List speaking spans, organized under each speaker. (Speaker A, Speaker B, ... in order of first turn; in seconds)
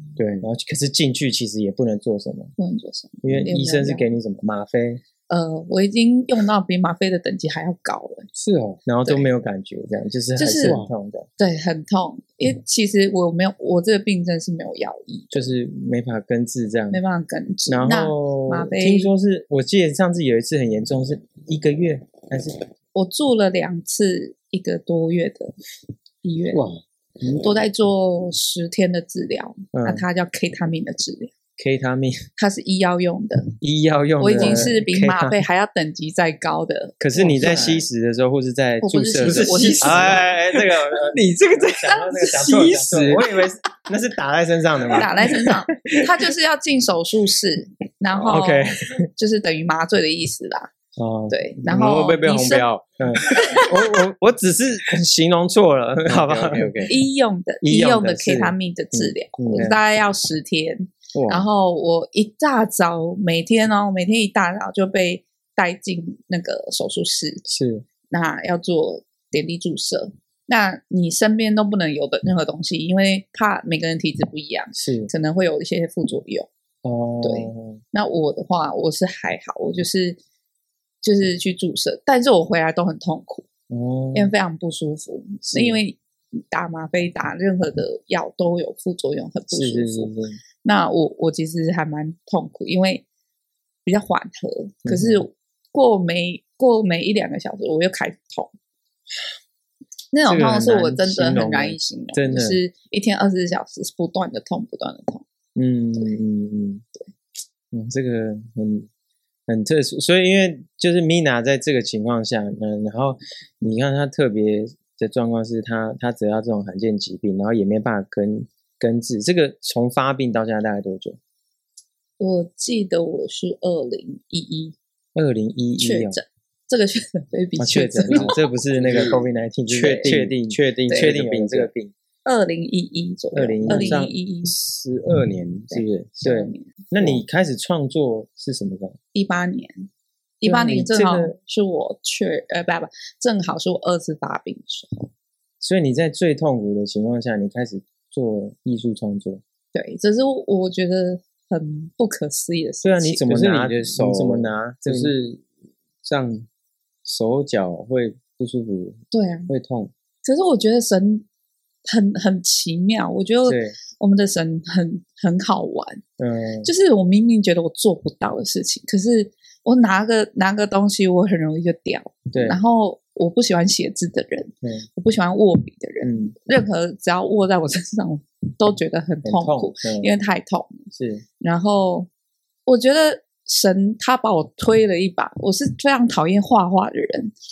Speaker A: 0.2-0.5, 8.3-8.8, 10.6-10.9, 26.5-26.8, 34.3-34.7, 37.1-37.8, 39.2-43.5, 51.7-53.8, 56.0-56.9, 61.1-61.5, 128.1-131.7, 133.7-136.1, 153.3-155.4, 156.0-156.5, 157.1-159.9
Speaker B: 0.4-2.5, 3.2-5.0, 8.8-11.3, 15.3-17.0, 17.7-22.6, 29.7-30.0, 31.6-32.2, 33.6-35.4, 37.0-45.1, 48.1-49.0, 51.0-51.6, 53.0-56.9, 57.6-59.8, 67.5-67.8, 74.8-75.1, 76.8-77.8, 83.7-84.3, 85.5-85.8, 89.5-90.4, 94.8-95.2, 100.2-102.6, 105.5-106.8, 107.7-108.9, 109.5-121.2, 125.1-126.2, 127.6-131.9, 133.3-134.1, 136.2-139.0, 140.4-141.3, 145.6-149.4, 152.8-155.1, 163.4-163.8, 166.2-166.7, 172.3-172.6, 176.0-176.3, 179.2-180.1, 180.9-181.2
Speaker C: 2.6-4.1, 5.3-8.3, 10.3-10.8, 11.4-15.5, 16.9-19.1, 22.9-25.5, 26.2-26.6, 27.2-31.3, 32.4-33.5, 34.2-37.0, 38.8-40.2, 44.9-50.7, 51.3-52.7, 53.4-53.6, 56.8-67.4, 68.1-76.5, 77.2-80.2, 81.0-83.5, 84.1-90.1, 90.6-93.0, 93.8-98.5, 100.1-105.2, 122.2-124.8, 125.8-128.3, 129.8-130.2, 132.2-134.5, 135.7-136.7, 139.1-139.9, 140.4-145.1, 149.7-153.3, 159.1-159.5, 160.2-161.2, 161.8-166.0, 166.6-180.9, 181.4-182.1, 182.7-187.3